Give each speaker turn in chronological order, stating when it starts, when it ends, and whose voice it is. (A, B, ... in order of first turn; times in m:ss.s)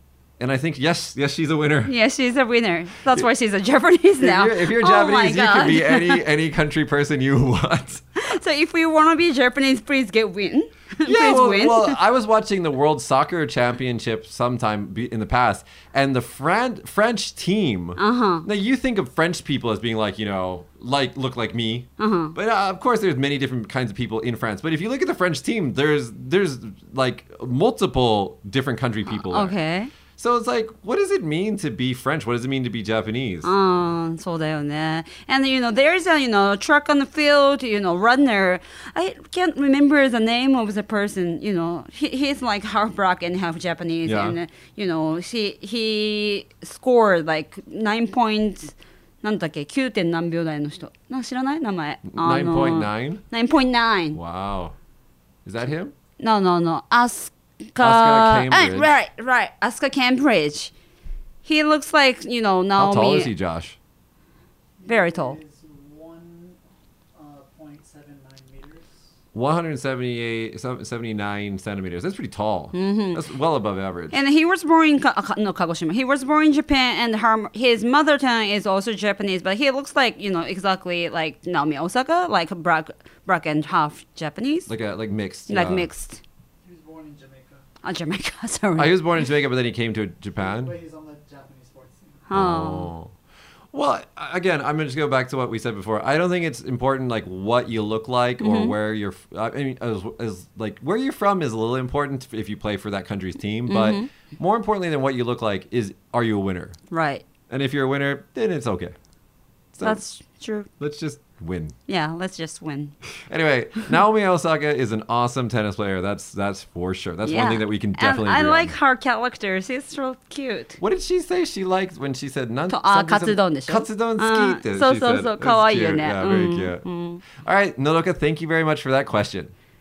0:00.4-0:01.9 A
0:01.8-0:06.2 B
0:04.2-0:08.0 A
0:08.2-0:12.0 B
0:11.0-0:29.6 A
0:18.0-0:18.5 B
0:22.0-0:22.4 B
0:29.1-0:29.9 B
0:30.2-0:33.5 A
0:33.4-0:54.2 B
0:44.0-0:44.4 A
0:52.1-0:53.2 A
0:54.1-0:54.8 A
0:55.4-0:55.9 A
0:56.2-1:00.7 B
0:57.8-0:58.9 A
1:01.4-1:03.3 B
1:02.8-1:03.8 A
1:04.8-1:06.6 C
1:04.9-1:05.4 B
1:07.2-1:08.9 C
1:09.3-1:14.2 A
1:12.7-1:13.2 B
1:14.1-1:24.7 B
1:24.7-1:25.9 A
1:25.5-1:26.2 B
1:26.6-1:27.6 C
1:27.8-1:29.0 B
1:28.8-1:30.8 A
1:30.6-1:32.2 C
1:32.3-1:32.9 B
1:32.3-1:33.1 A
1:33.7-1:46.8 A
1:38.4-1:38.8 B
1:43.7-1:44.1 B
1:46.9-1:47.2 B
1:47.5-1:49.0 A
1:49.7-1:50.0 A
1:49.8-1:50.7 B
1:50.8-1:51.8 A
1:51.9-1:53.0 B
1:53.3-1:58.7 A
1:57.2-2:00.8 B
2:00.8-2:09.5 A
2:02.7-2:07.2 B